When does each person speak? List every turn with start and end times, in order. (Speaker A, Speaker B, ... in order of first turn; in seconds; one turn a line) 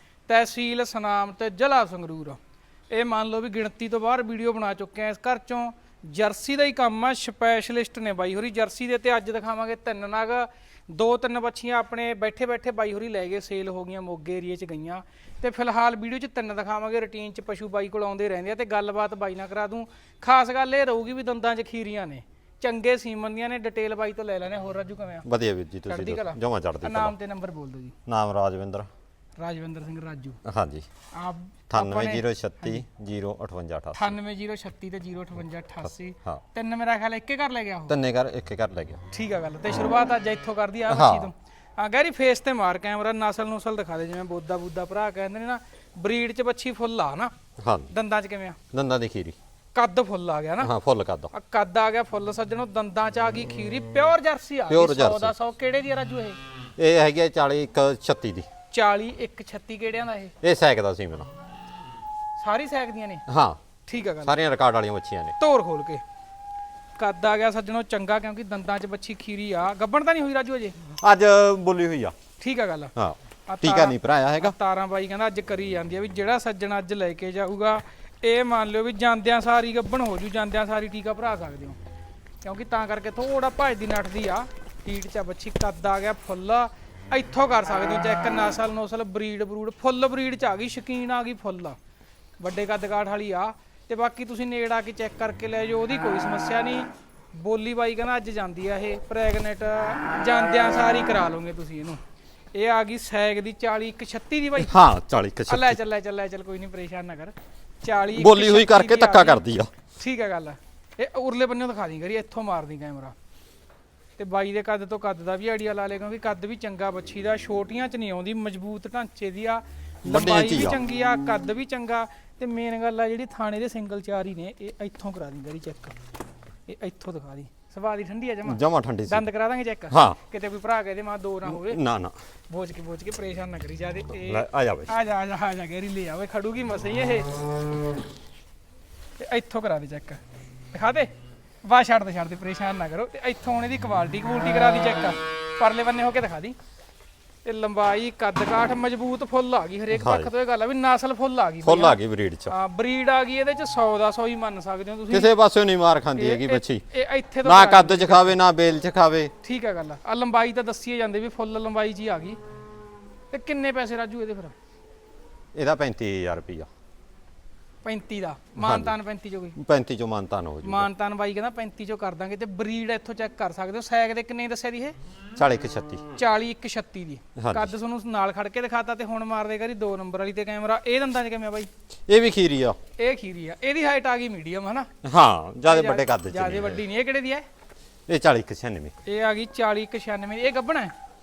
Speaker A: 0.3-2.4
Speaker A: 2.9-25.2
Speaker B: 25.2-27.1
Speaker A: 25.9-27.9
Speaker B: 28.1-28.9
Speaker A: 29.4-30.4
Speaker B: 30.4-30.9
Speaker A: 31.1-32.8
Speaker B: 31.7-34.1
Speaker A: 33.9-38.0
Speaker B: 37.9-39.0
Speaker A: 39.1-47.3
Speaker B: 40.9-41.3
Speaker B: 47.6-47.9
Speaker A: 47.9-48.6
Speaker B: 48.7-49.4
Speaker A: 49.7-50.7
Speaker B: 50.6-51.3
Speaker A: 51.3-56.4
Speaker B: 54.7-55.3
Speaker B: 56.8-58.5
Speaker A: 58.7-60.3
Speaker B: 60.4-61.3
Speaker A: 62.4-63.2
Speaker B: 63.3-63.6
Speaker A: 63.9-64.3
Speaker B: 64.2-65.3
Speaker A: 65.4-66.0
Speaker A: 67.0-70.8
Speaker B: 70.9-72.1
Speaker A: 72.4-72.9
Speaker B: 73.0-74.5
Speaker A: 73.5-81.8
Speaker A: 82.4-91.8
Speaker A: 92.4-102.0
Speaker A: 102.5-104.7
Speaker B: 104.6-105.8
Speaker A: 105.5-109.4
Speaker B: 108.1-109.7
Speaker A: 110.0-113.1
Speaker A: 114.2-126.0
Speaker B: 120.0-120.8
Speaker A: 126.7-131.8
Speaker B: 128.4-129.2
Speaker B: 129.9-130.2
Speaker B: 131.4-132.1
Speaker A: 132.5-137.3
Speaker B: 134.2-134.9
Speaker A: 139.2-140.2
Speaker A: 140.7-141.1
Speaker A: 141.6-146.5
Speaker A: 147.4-152.0
Speaker B: 149.9-150.3
Speaker B: 151.6-152.5
Speaker A: 152.5-155.3
Speaker B: 155.1-156.8
Speaker A: 156.2-158.3
Speaker B: 157.4-159.3
Speaker A: 159.4-162.4
Speaker A: 163.3-164.5
Speaker B: 165.5-166.7
Speaker A: 167.8-169.6
Speaker B: 168.6-168.9
Speaker B: 169.6-170.9
Speaker A: 170.6-174.9
Speaker B: 175.3-176.1
Speaker A: 176.2-181.7
Speaker B: 177.4-177.7
Speaker B: 182.1-182.8
Speaker A: 183.0-184.9
Speaker B: 185.0-186.8
Speaker A: 185.7-187.4
Speaker B: 188.1-188.9
Speaker A: 189.1-190.9